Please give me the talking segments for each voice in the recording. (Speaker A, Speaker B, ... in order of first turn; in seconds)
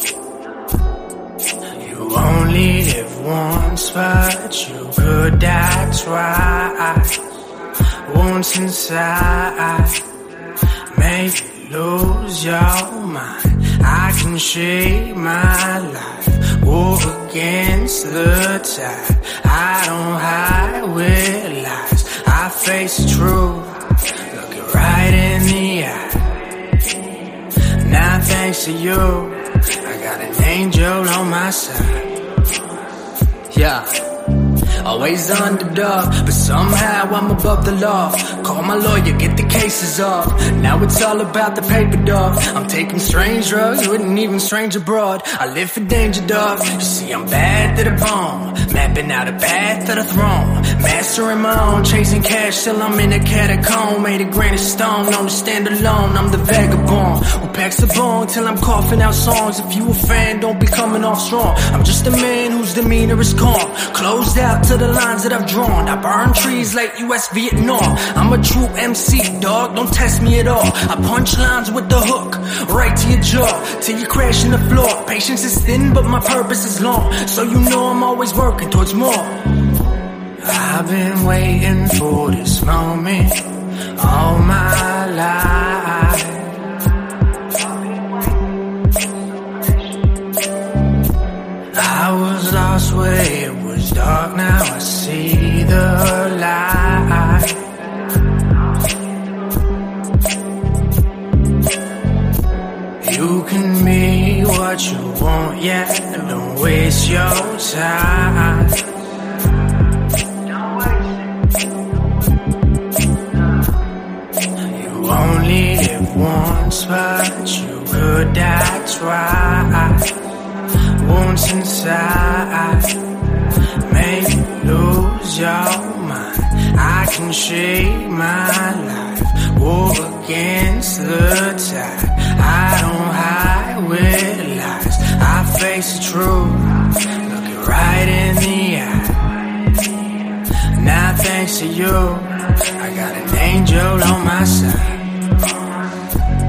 Speaker A: 1.8-7.2, 8.1-10.1, 10.9-26.5, 27.8-32.1, 33.5-33.9, 34.8-79.5, 80.4-86.7, 89.6-89.9, 91.7-97.7, 103.0-108.8, 114.7-120.2, 121.0-123.0, 123.8-139.8, 140.7-145.1